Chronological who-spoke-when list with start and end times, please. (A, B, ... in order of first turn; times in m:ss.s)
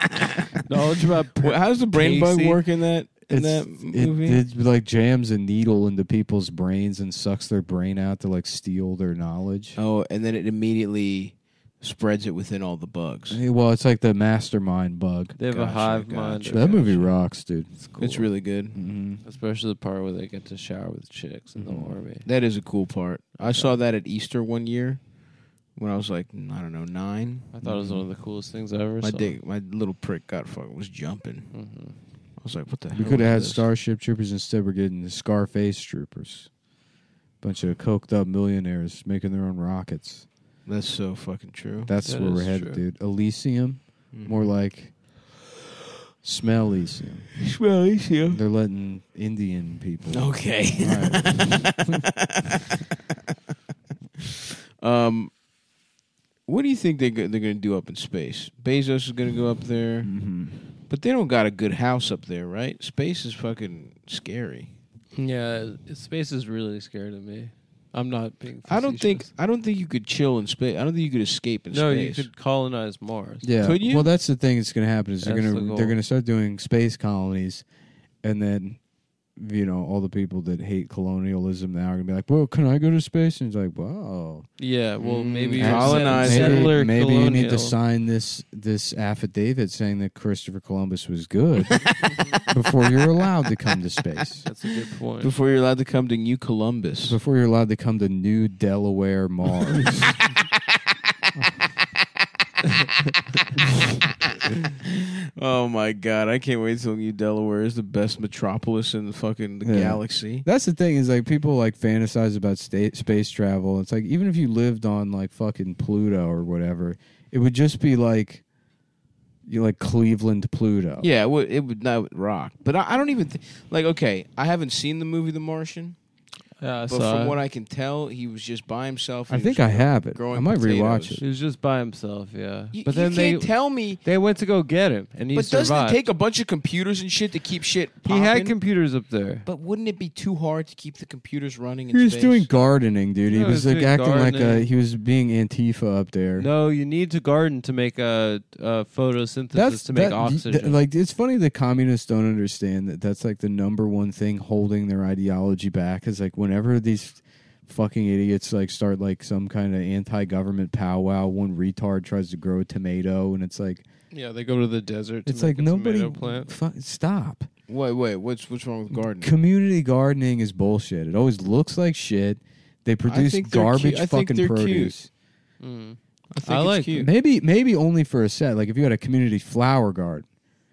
0:00.7-0:02.6 A
0:01.4-0:04.4 B
0:03.3-0:09.8 C
0:09.8-0:13.4 B
0:13.3-0:15.4 C
0:15.4-0:17.2 A
0:15.5-0:16.6 B
0:16.5-0:17.7 C
0:17.8-0:18.3 A
0:18.0-0:18.8 B
0:18.8-0:19.2 C
0:19.2-0:22.3 A
0:21.6-0:22.0 C
0:22.2-0:25.0 B
0:23.4-0:23.8 A
0:25.8-0:27.5 B
0:27.5-0:29.4 A
0:27.6-0:28.0 C
0:29.0-0:31.5 B
0:31.5-0:32.0 A
0:32.4-0:33.7 B
0:32.9-0:36.5 C
0:37.4-0:40.3 C
0:40.7-0:41.9 B
0:41.9-0:44.9 C
0:42.0-0:42.8 A
0:44.1-0:44.5 B
0:46.2-0:47.3 C
0:47.5-0:48.4 B
0:48.3-0:51.9 C
0:50.1-0:52.5 B
0:54.8-0:55.3 B
0:56.5-1:00.2 B
1:00.0-1:00.6 C
1:00.9-1:04.7 B
1:05.2-1:09.3 A
1:08.7-1:12.3 B
1:11.7-1:13.5 A
1:13.4-1:17.6 C
1:13.6-1:14.1 B
1:15.2-1:16.0 A
1:18.2-1:18.8 C
1:19.4-1:24.5 C
1:24.6-1:27.8 A
1:25.0-1:26.7 B
1:25.6-1:34.5 C
1:34.4-1:35.4 A
1:35.2-1:37.2 B
1:37.1-1:40.1 C
1:44.4-1:50.5 B
1:49.6-1:58.4 C
1:59.5-2:01.1 C
2:01.0-2:06.0 B
2:06.6-2:07.4 A
2:06.9-2:11.2 B
2:09.3-2:11.2 C
2:11.2-2:16.0 A
2:12.7-2:14.0 B
2:15.3-2:18.6 B
2:18.1-2:19.5 A
2:19.4-2:22.5 B
2:21.9-2:26.5 C
2:23.3-2:24.7 A
2:26.4-2:30.8 A
2:29.5-2:43.8 C
2:44.1-2:46.5 A
2:45.3-2:47.5 C
2:47.7-2:49.3 B
2:49.2-2:55.1 C
2:53.1-2:55.0 B
2:55.6-2:57.1 A
2:56.3-2:57.1 B
2:57.0-3:00.3 C